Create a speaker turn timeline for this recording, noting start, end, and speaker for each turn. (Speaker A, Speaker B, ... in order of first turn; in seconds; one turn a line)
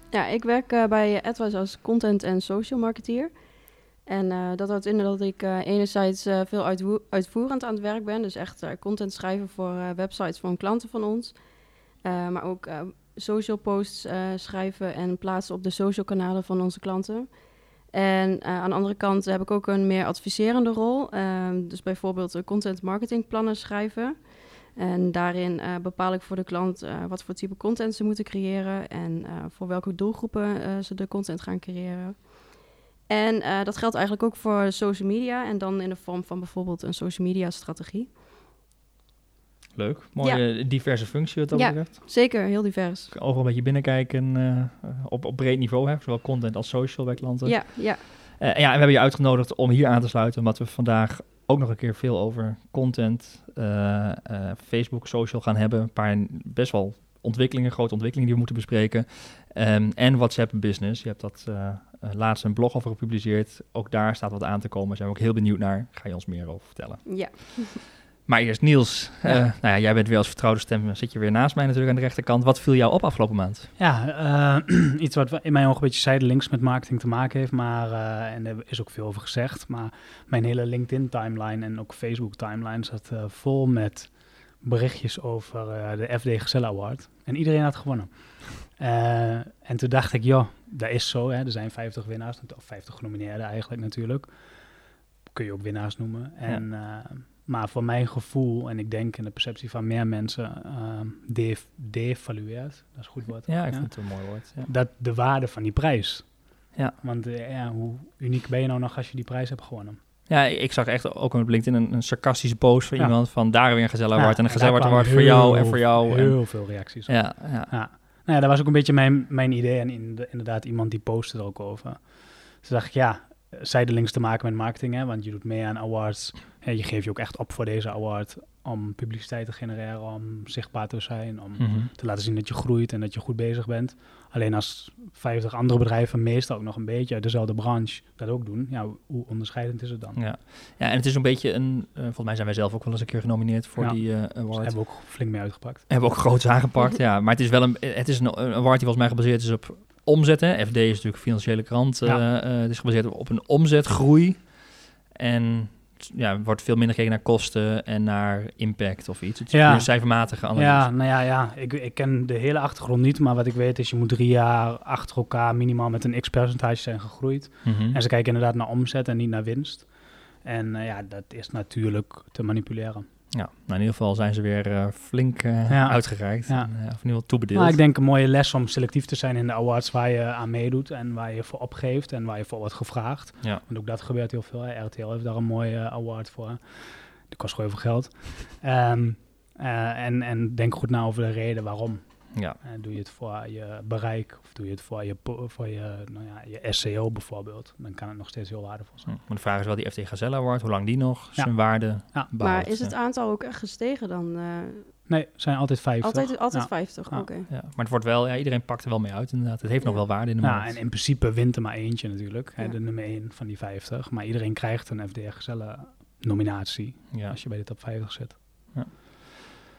Speaker A: 0.1-3.4
Speaker A: 4.0-11.5
Speaker A: 12.0-32.4
Speaker A: 33.1-38.1
Speaker B: 39.7-42.2
Speaker A: 40.2-40.8
Speaker A: 41.5-43.1
Speaker B: 43.1-73.7
Speaker A: 47.4-48.0
Speaker A: 67.0-67.8
Speaker C: 73.8-94.6
Speaker C: 95.3-110.0
Speaker B: 103.5-104.7
Speaker B: 110.3-117.8
Speaker C: 113.0-140.2
Speaker B: 131.6-131.9
Speaker B: 140.2-145.3
Speaker C: 143.8-145.9
Speaker B: 145.9-160.9
Speaker C: 159.5-173.0
Speaker B: 167.6-168.0
Speaker B: 173.3-177.8
Speaker C: 175.7-199.2
Speaker B: 199.1-202.9
Speaker C: 201.3-202.3
Speaker A: 202.3-204.9
Speaker C: 205.1-207.3
Speaker A: 206.0-207.5
Speaker B: 207.5-210.8
Speaker C: 210.4-218.7
Speaker B: 217.1-217.4
Speaker B: 218.7-219.6